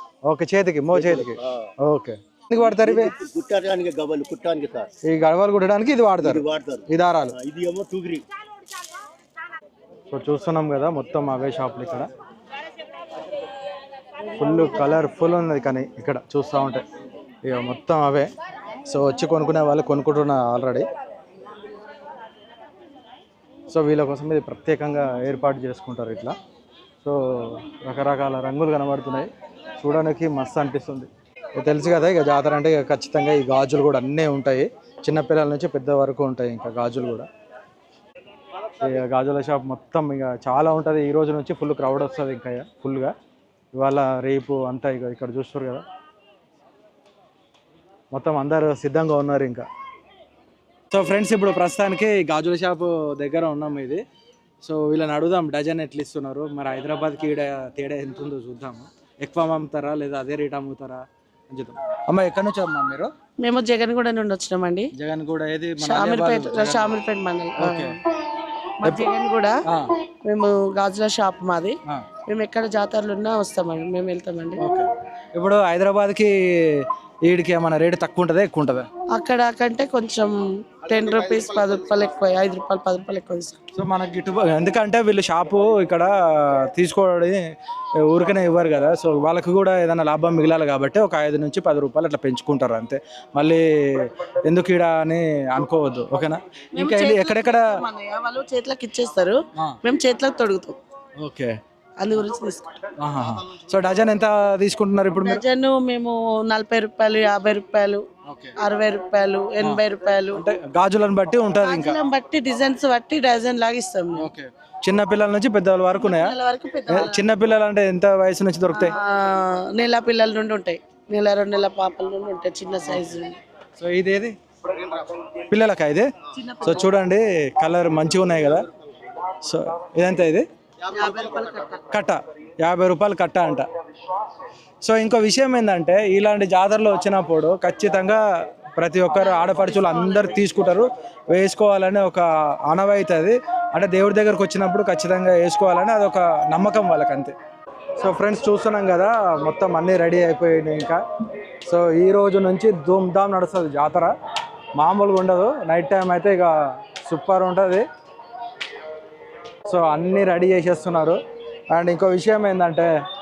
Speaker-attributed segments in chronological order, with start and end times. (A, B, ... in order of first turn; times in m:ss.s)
0:00.2-0:03.1 A
0:00.9-0:01.7 B
0:02.6-0:04.9 B
0:05.1-0:07.4 A
0:06.2-0:08.2 B
0:10.1-0:12.1 A
0:14.4-0:16.8 A
0:17.4-0:18.3 A
0:18.9-0:20.9 A
0:23.7-0:26.4 A
0:27.0-0:37.3 A
0:38.8-0:43.1 A
0:43.8-0:45.8 A
0:48.1-0:49.7 A
0:50.9-0:54.0 A
0:54.6-1:03.1 A
1:03.4-1:04.9 C
1:04.9-1:07.0 A
1:05.8-1:07.9 C
1:07.6-1:07.9 A
1:08.8-1:09.6 C
1:09.7-1:09.9 A
1:10.2-1:14.7 C
1:14.6-1:18.9 A
1:19.1-1:23.6 C
1:23.8-1:27.4 A
1:28.0-1:37.8 A
1:36.8-1:40.8 C
1:41.2-1:41.6 A
1:42.0-1:42.8 C
1:43.0-1:45.4 A
1:45.1-1:48.1 C
1:48.2-1:48.6 A
1:48.6-1:50.4 C
1:49.6-1:52.0 A
1:51.6-1:54.3 C
1:54.2-1:56.4 A
1:56.0-1:57.3 C
1:56.9-1:58.9 A
1:58.7-2:03.4 C
2:03.8-2:04.4 A
2:05.4-2:06.1 A
2:06.3-2:06.9 C
2:06.6-2:08.7 A
2:09.4-2:10.5 A
2:10.9-2:11.8 C
2:11.9-2:13.7 A
2:14.8-2:27.3 A
2:19.2-2:20.3 C
2:28.0-2:31.0 A
2:31.7-2:34.1 A
2:34.8-2:37.9 A
2:39.7-2:41.2 A
2:41.7-2:42.9 A